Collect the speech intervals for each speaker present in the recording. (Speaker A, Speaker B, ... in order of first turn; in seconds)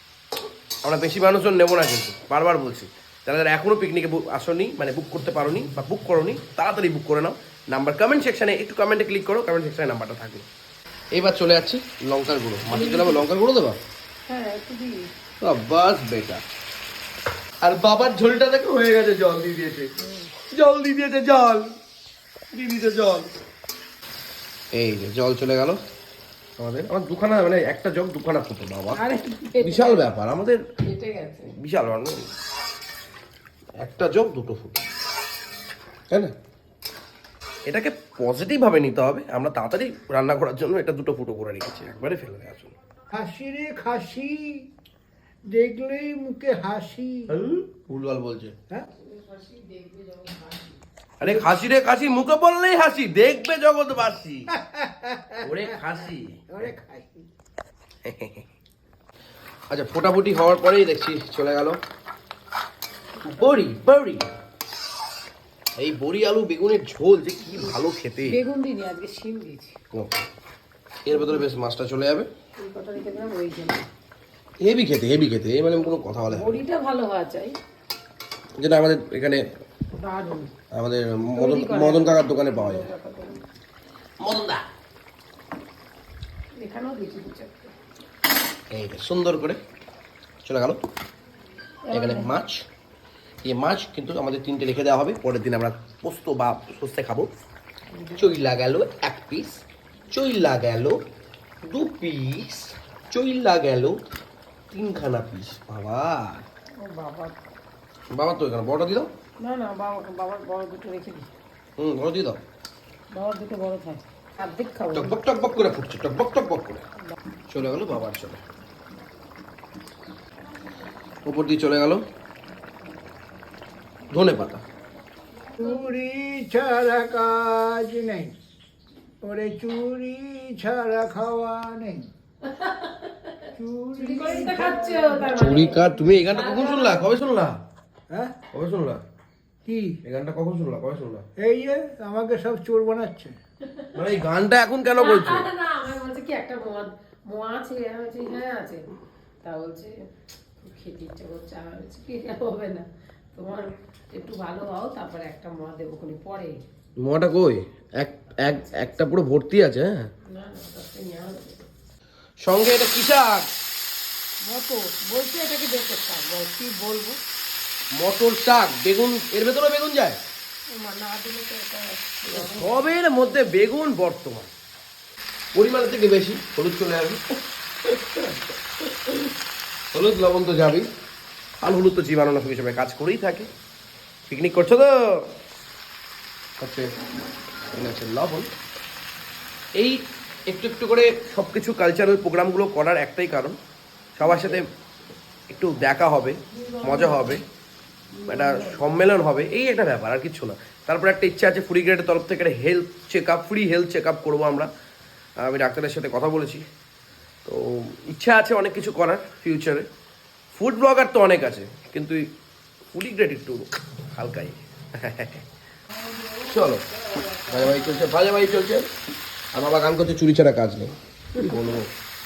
Speaker A: 0.8-10.5, 11.1-13.8, 15.4-16.4, 17.6-19.9, 20.5-21.7, 22.5-23.3, 24.7-25.8, 26.6-29.0, 29.6-30.6, 31.6-32.3, 33.8-34.8, 37.7-42.7, 47.3-48.5, 51.2-54.5, 55.4-56.7, 58.0-58.5, 59.7-61.8, 63.2-64.2, 65.8-68.4, 69.9-70.2, 71.0-72.3, 74.6-76.6, 78.6-79.5, 80.7-82.9, 84.2-84.6, 88.7-89.6, 90.4-90.8, 91.9-92.7, 93.4-97.3, 98.2-101.0, 101.6-104.0, 104.7-106.5, 108.1-109.1, 111.8-112.4, 114.9-116.8, 117.5-118.4, 121.2-122.0, 124.1-124.6, 135.3-137.6, 138.5-139.0, 140.0-141.2, 143.9-145.5, 157.0-160.1, 162.4-163.5, 167.9-170.2, 172.3-174.5, 175.5-177.2, 177.8-179.3, 179.9-180.9, 181.6-183.5, 184.3-185.3, 186.6-186.9, 187.7-188.5, 189.8-193.6, 194.2-194.7, 195.5-197.4, 198.3-204.7, 205.4-206.6, 207.4-209.8, 210.5-212.3, 212.9-215.4, 216.4-216.8, 217.4-218.9, 219.5-221.9
Speaker B: 12.7-13.3, 14.3-14.9, 20.0-20.3, 28.9-30.1, 30.8-31.6, 48.9-50.8, 68.2-69.8, 71.1-71.4, 72.6-73.9, 76.3-77.5, 79.9-80.5, 81.3-83.4, 86.6-87.7, 91.9-92.3, 97.9-98.4, 106.8-107.3, 109.4-111.3, 113.1-115.2, 132.4-137.1, 143.7-143.9, 145.0-148.8, 149.4-149.9, 150.6-156.6, 158.4-159.0, 160.3-161.7, 164.5-167.2, 170.7-172.9, 194.3-194.6, 196.5-197.4, 198.1-198.9
Speaker C: 43.1-44.7, 45.5-47.3, 51.2-51.6, 54.6-55.8, 56.5-57.2, 125.6-128.3, 129.2-132.1, 133.6-135.4, 138.1-138.4, 139.7-140.0, 141.4-143.3, 216.1-216.6, 217.2-218.1